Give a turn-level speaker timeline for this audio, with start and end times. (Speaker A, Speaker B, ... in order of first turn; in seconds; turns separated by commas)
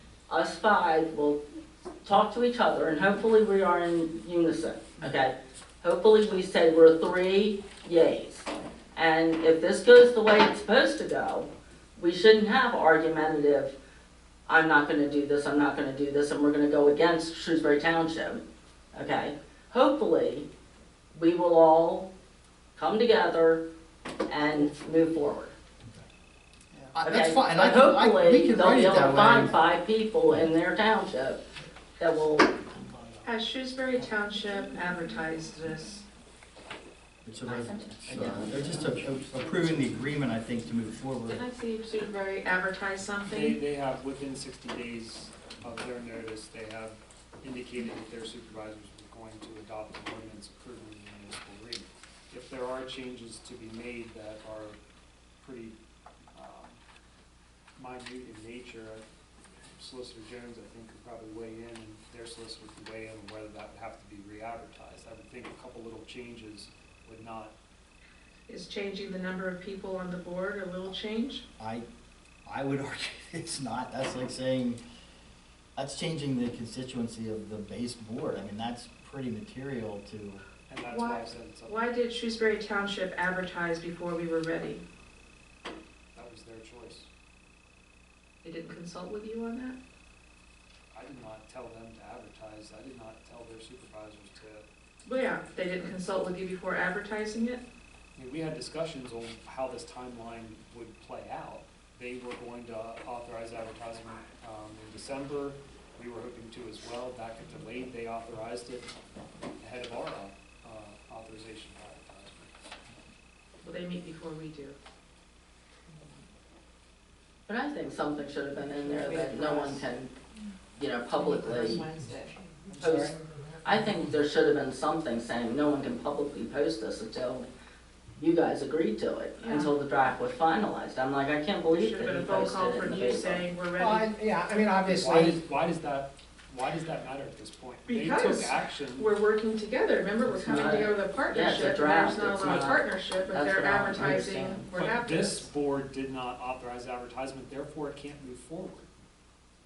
Speaker A: 0.3-1.4, Speaker A: 2.0-13.8, Speaker A: 14.5-18.4, Speaker A: 18.9-20.5, Speaker A: 21.1-22.1, Speaker A: 22.8-23.6, Speaker A: 24.3-25.6, Speaker B: 26.9-29.6, Speaker A: 27.0-31.4, Speaker A: 32.0-32.6, Speaker C: 33.2-36.1, Speaker B: 37.2-41.4, Speaker A: 37.5-38.5, Speaker C: 41.3-43.6, Speaker D: 43.3-54.8, Speaker D: 55.4-55.8, Speaker D: 56.3-56.8, Speaker D: 57.8-59.0, Speaker D: 59.8-67.5, Speaker C: 68.5-71.5, Speaker B: 71.6-71.9, Speaker B: 72.5-74.8, Speaker B: 75.8-80.4, Speaker D: 80.7-81.8, Speaker C: 80.9-84.8, Speaker D: 86.1-87.1, Speaker C: 88.4-89.8, Speaker D: 90.9-94.6, Speaker C: 95.1-97.6, Speaker D: 98.2-108.9, Speaker D: 109.6-112.5, Speaker C: 113.6-114.8, Speaker A: 117.5-120.1, Speaker C: 118.8-119.8, Speaker A: 120.8-121.9, Speaker C: 121.1-122.8, Speaker E: 122.8-123.2, Speaker A: 122.8-127.5, Speaker A: 128.2-133.4, Speaker C: 129.4-129.7, Speaker C: 131.7-134.1, Speaker E: 133.8-135.4, Speaker D: 134.9-139.1, Speaker C: 137.9-145.5, Speaker A: 140.3-144.7, Speaker D: 142.4-142.8, Speaker D: 144.7-148.9